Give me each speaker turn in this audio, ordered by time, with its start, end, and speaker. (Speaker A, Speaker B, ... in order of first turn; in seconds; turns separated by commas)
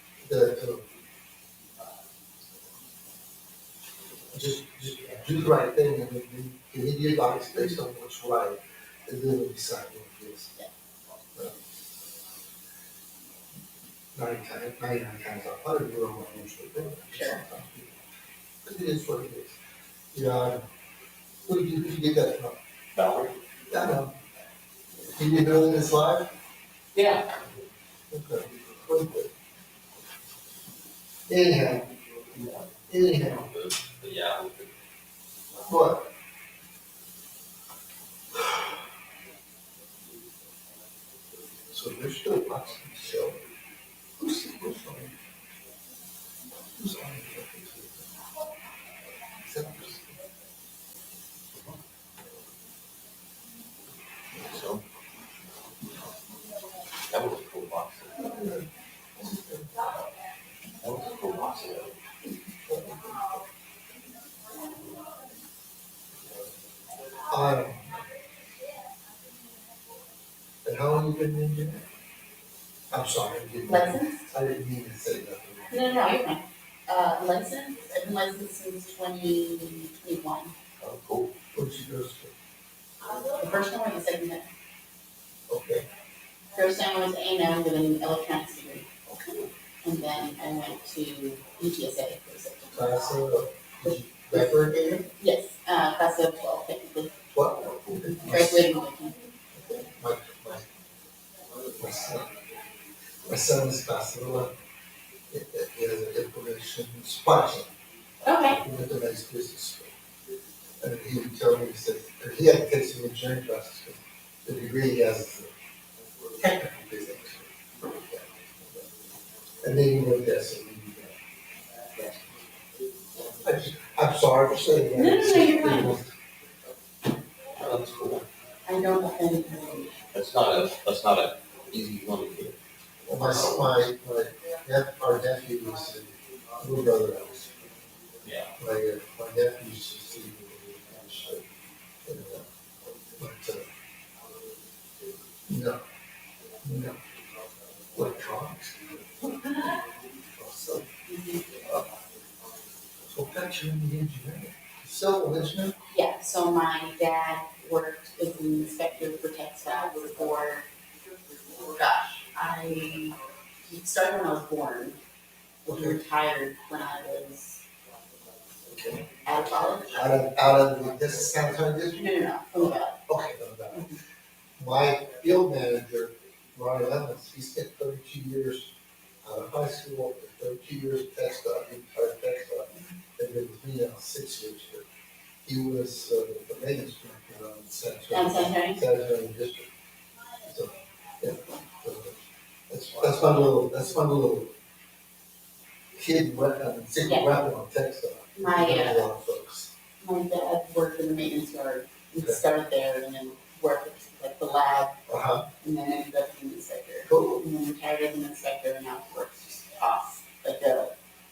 Speaker A: 0.2-0.8, Speaker A: 4.3-10.5, Speaker A: 14.1-18.0, Speaker B: 17.1-17.4, Speaker A: 18.6-19.6, Speaker A: 20.1-20.6, Speaker A: 21.4-22.6, Speaker C: 22.9-23.4, Speaker A: 23.7-24.1, Speaker A: 25.1-26.3, Speaker C: 26.9-27.4, Speaker A: 28.1-29.3, Speaker A: 31.3-33.5, Speaker C: 33.2-34.7, Speaker A: 35.6-36.1, Speaker A: 41.7-43.4, Speaker A: 44.2-45.2, Speaker A: 46.7-48.1, Speaker A: 49.4-50.2, Speaker C: 51.5-51.8, Speaker C: 54.4-54.8, Speaker C: 57.1-58.4, Speaker A: 58.2-58.7, Speaker A: 59.2-59.9, Speaker C: 60.8-62.0, Speaker A: 62.7-63.4, Speaker A: 67.2-68.0, Speaker A: 70.7-71.8, Speaker A: 72.9-75.7, Speaker B: 73.7-74.3, Speaker B: 75.7-80.5, Speaker C: 80.8-81.3, Speaker A: 81.5-82.3, Speaker B: 83.0-84.5, Speaker A: 85.5-85.8, Speaker B: 86.5-88.9, Speaker A: 89.1-89.5, Speaker B: 89.8-93.0, Speaker A: 92.7-95.0, Speaker B: 93.8-97.2, Speaker A: 97.3-98.7, Speaker B: 98.3-99.2, Speaker A: 99.5-100.7, Speaker A: 101.7-102.3, Speaker A: 103.2-104.5, Speaker A: 105.3-107.7, Speaker B: 108.2-108.6, Speaker A: 108.5-109.9, Speaker A: 110.8-115.5, Speaker A: 116.3-118.8, Speaker A: 119.6-121.1, Speaker A: 123.3-126.1, Speaker B: 124.9-125.9, Speaker C: 127.5-128.2, Speaker B: 128.7-130.0, Speaker C: 130.1-132.6, Speaker A: 133.1-137.7, Speaker C: 133.2-133.8, Speaker C: 138.2-138.5, Speaker A: 138.6-141.5, Speaker A: 142.0-142.4, Speaker A: 143.2-143.7, Speaker A: 145.5-145.8, Speaker A: 146.6-147.0, Speaker A: 147.9-150.8, Speaker B: 151.1-151.5, Speaker A: 153.1-155.7, Speaker B: 155.9-160.7, Speaker B: 161.6-165.0, Speaker B: 165.6-167.6, Speaker A: 165.7-166.0, Speaker A: 168.7-169.1, Speaker B: 169.2-170.1, Speaker A: 169.9-172.0, Speaker B: 171.9-173.0, Speaker A: 173.1-173.9, Speaker B: 173.7-174.0, Speaker A: 174.6-178.7, Speaker A: 179.2-184.8, Speaker A: 185.4-189.7, Speaker B: 188.1-188.8, Speaker A: 190.4-192.2, Speaker A: 192.7-194.5, Speaker B: 193.2-193.8, Speaker A: 195.9-199.7, Speaker B: 197.0-197.3, Speaker B: 198.3-199.1, Speaker B: 200.0-204.9, Speaker A: 205.1-205.5, Speaker B: 205.6-210.9, Speaker A: 207.1-207.4